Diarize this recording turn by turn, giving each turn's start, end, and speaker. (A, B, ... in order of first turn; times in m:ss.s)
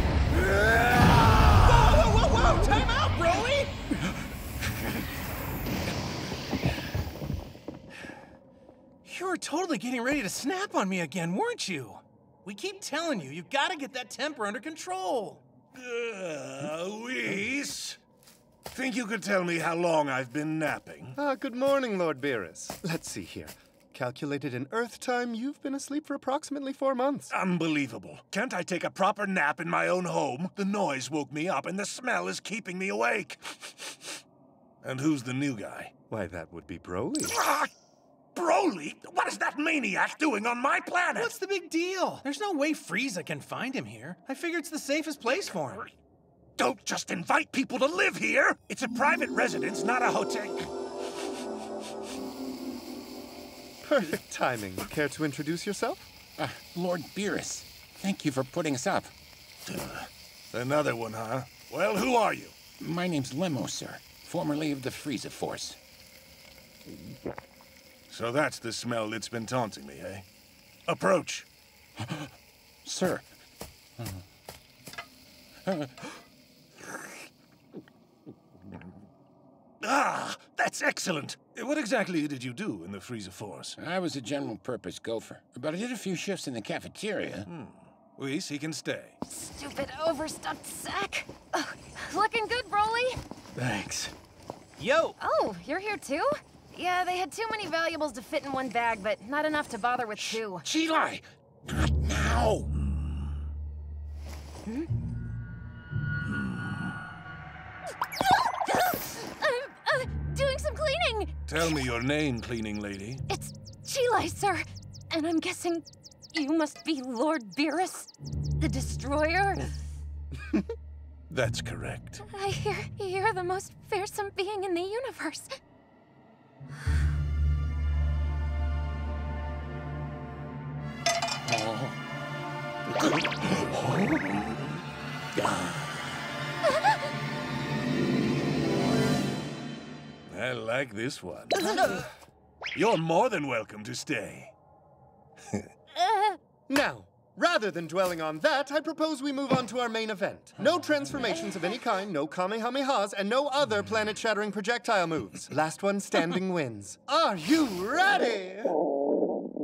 0:01.6-0:03.7 A
0:09.0-0:15.4 A
0:15.7-0:18.0 B
0:18.7-0:21.2 B
0:21.2-0:27.3 C
0:27.3-0:34.0 B
0:34.8-0:35.9 B
0:36.1-0:37.4 C
0:37.3-0:37.7 B
0:38.3-0:41.3 B
0:41.2-0:45.9 A
0:46.6-0:50.7 B
0:53.8-0:56.1 C
0:56.4-0:59.1 D
0:59.7-1:02.6 B
1:02.8-1:05.8 D
1:08.1-1:10.3 B
1:10.9-1:11.5 B
1:12.0-1:12.3 D
1:12.8-1:13.3 D
1:15.7-1:16.1 D
1:19.8-1:23.8 B
1:23.8-1:27.5 D
1:27.5-1:29.2 B
1:29.3-1:33.2 E
1:33.6-1:34.1 A
1:34.8-1:35.2 A
1:35.2-1:40.7 E
1:40.2-1:42.7 D
1:48.7-1:51.7 E
1:51.5-1:53.3 B
1:53.3-1:59.7 E
2:01.3-2:02.2 B
2:02.2-2:05.5 E
2:20.3-2:21.6 B
2:21.8-2:22.0 E
2:22.7-2:24.5 B
2:26.0-2:26.4 E
2:26.7-2:38.8 C